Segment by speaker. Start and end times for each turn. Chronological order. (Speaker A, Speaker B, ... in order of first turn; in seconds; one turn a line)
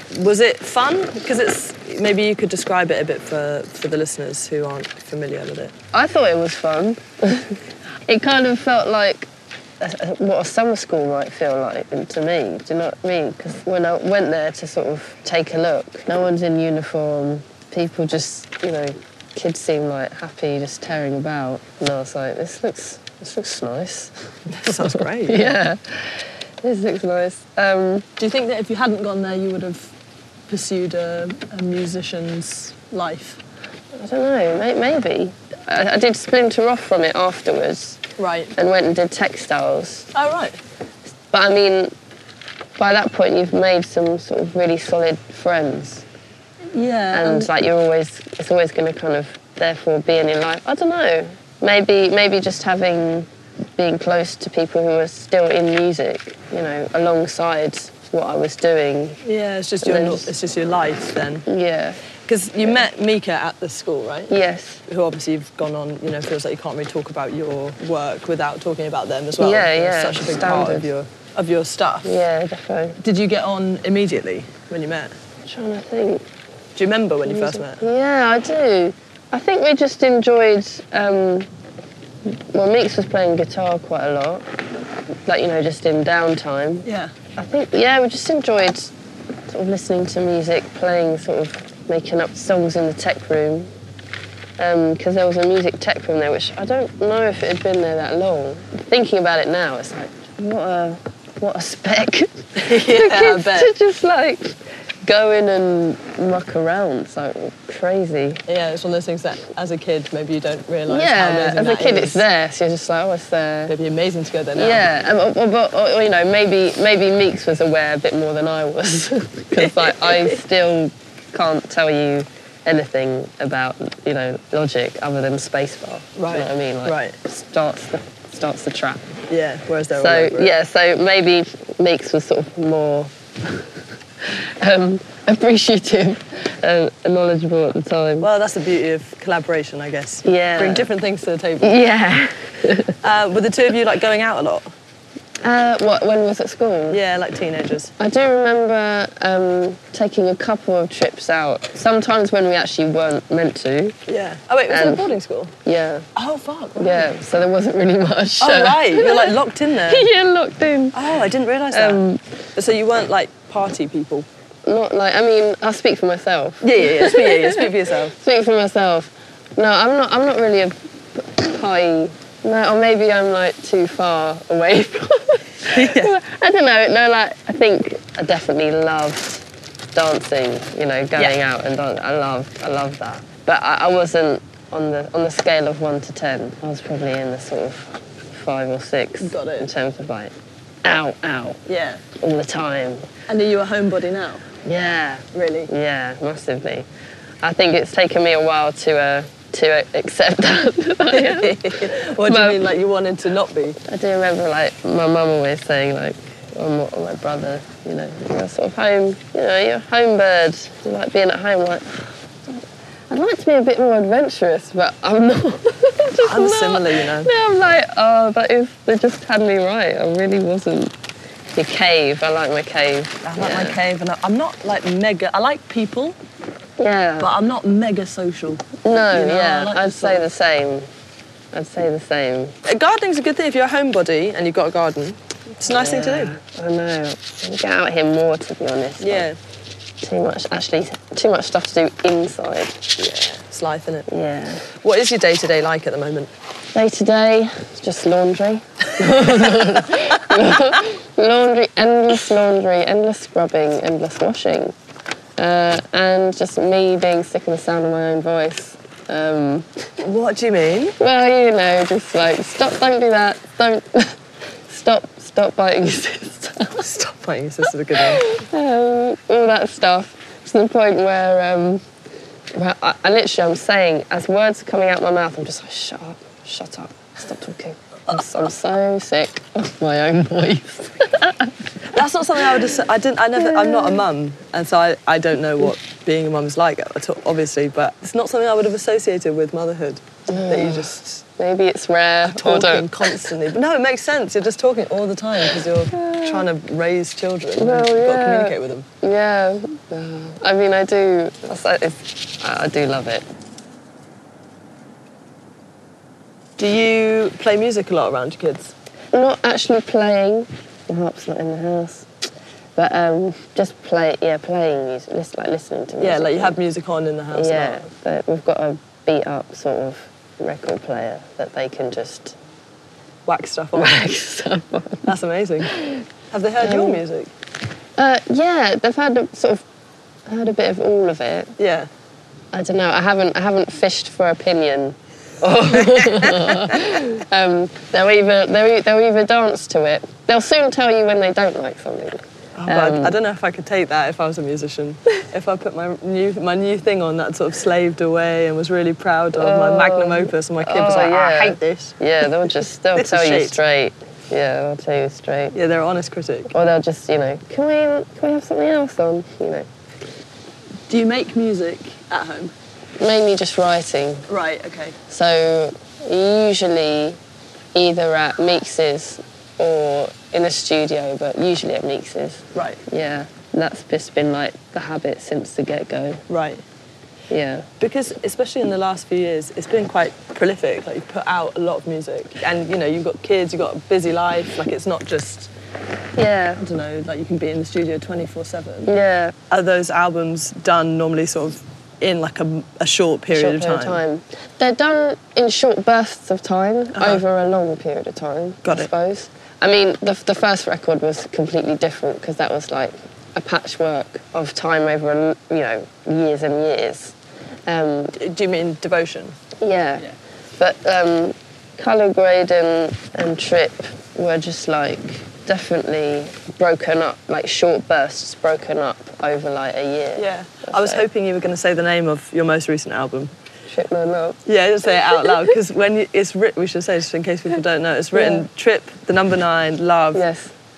Speaker A: 0.1-5.7
Speaker B: 5.9-24.1
Speaker A: 24.5-25.6
Speaker B: 24.6-28.1
Speaker A: 28.2-29.9
Speaker A: 30.5-33.4
Speaker B: 33.9-38.0
Speaker A: 38.2-38.5
Speaker B: 38.6-40.1
Speaker A: 40.1-40.6
Speaker B: 41.3-41.9
Speaker B: 42.8-46.1
Speaker A: 46.7-47.5
Speaker B: 47.1-59.2
Speaker A: 59.2-61.5
Speaker B: 59.8-60.3
Speaker B: 61.5-62.0
Speaker A: 62.3-64.3
Speaker B: 64.3-64.8
Speaker A: 64.9-72.1
Speaker B: 69.4-70.9
Speaker B: 72.0-73.0
Speaker A: 73.0-75.1
Speaker B: 75.4-76.3
Speaker A: 76.8-77.8
Speaker B: 77.3-81.5
Speaker B: 82.2-84.5
Speaker B: 85.3-88.9
Speaker A: 86.8-87.1
Speaker B: 89.5-93.7
Speaker B: 94.6-108.4
Speaker A: 102.6-103.7
Speaker A: 108.5-112.2
Speaker B: 110.9-113.8
Speaker A: 113.7-114.8
Speaker B: 114.5-129.2
Speaker A: 119.6-120.4
Speaker A: 126.2-127.2
Speaker A: 129.3-130.5
Speaker B: 129.9-133.7
Speaker B: 134.2-138.3
Speaker A: 138.2-141.8
Speaker B: 140.2-140.9
Speaker B: 141.6-142.9
Speaker A: 143.0-144.7
Speaker B: 145.4-147.0
Speaker A: 146.9-147.9
Speaker B: 148.0-154.0
Speaker A: 154.1-155.6
Speaker B: 154.7-155.1
Speaker B: 155.7-156.1
Speaker A: 156.2-157.1
Speaker B: 156.8-159.3
Speaker A: 158.4-160.1
Speaker B: 159.9-161.0
Speaker A: 160.9-162.0
Speaker B: 161.7-162.2
Speaker A: 162.6-164.3
Speaker B: 164.7-191.6
Speaker A: 166.6-168.2
Speaker A: 175.7-176.2
Speaker A: 189.2-189.7
Speaker A: 191.7-192.0
Speaker B: 192.2-193.1
Speaker A: 193.3-194.5
Speaker B: 194.6-196.9
Speaker A: 195.3-195.7
Speaker B: 197.4-202.6
Speaker A: 201.1-203.8
Speaker B: 203.8-220.9
Speaker A: 216.2-217.3
Speaker B: 221.5-223.8
Speaker A: 223.2-226.2
Speaker B: 226.8-227.3
Speaker A: 227.2-230.2
Speaker B: 228.8-230.9
Speaker B: 231.5-232.6
Speaker A: 232.7-236.3
Speaker B: 235.6-239.3
Speaker A: 239.0-239.4
Speaker B: 240.0-242.8
Speaker A: 243.0-244.1
Speaker B: 244.1-244.7
Speaker A: 244.7-246.3
Speaker B: 246.7-254.8
Speaker B: 255.4-259.9
Speaker A: 260.0-261.0
Speaker B: 261.0-266.9
Speaker A: 266.7-268.3
Speaker B: 268.0-271.8
Speaker B: 272.5-281.5
Speaker A: 281.9-291.2
Speaker B: 283.4-284.0
Speaker B: 290.3-293.3
Speaker A: 292.2-298.9
Speaker B: 295.9-296.5
Speaker B: 297.6-303.3
Speaker A: 306.6-308.7
Speaker B: 309.1-312.1
Speaker B: 312.8-316.6
Speaker A: 316.0-317.9
Speaker B: 317.3-322.4
Speaker A: 323.3-324.0
Speaker B: 323.8-325.1
Speaker A: 325.1-327.3
Speaker B: 325.7-326.0
Speaker B: 326.6-327.0
Speaker B: 328.0-329.6
Speaker B: 330.3-331.5
Speaker A: 331.6-331.9
Speaker B: 332.5-343.2
Speaker A: 335.7-336.8
Speaker A: 342.6-352.3
Speaker B: 349.4-355.6
Speaker A: 352.9-353.6
Speaker A: 355.5-356.5
Speaker B: 356.5-359.7
Speaker A: 360.9-362.5
Speaker B: 363.0-364.3
Speaker A: 364.3-365.0
Speaker B: 365.1-367.2
Speaker B: 367.7-376.2
Speaker A: 372.6-372.8
Speaker A: 376.3-376.6
Speaker B: 377.3-377.7
Speaker A: 377.8-385.5
Speaker B: 386.2-386.6
Speaker A: 386.6-388.9
Speaker B: 388.9-389.4
Speaker A: 389.5-394.0
Speaker B: 393.3-407.2
Speaker A: 396.9-397.2
Speaker A: 398.6-398.9
Speaker B: 407.7-408.1
Speaker A: 408.1-409.4
Speaker B: 409.6-421.0
Speaker A: 420.2-423.3
Speaker B: 423.7-424.4
Speaker A: 424.5-430.2
Speaker B: 428.1-428.4
Speaker B: 430.1-430.5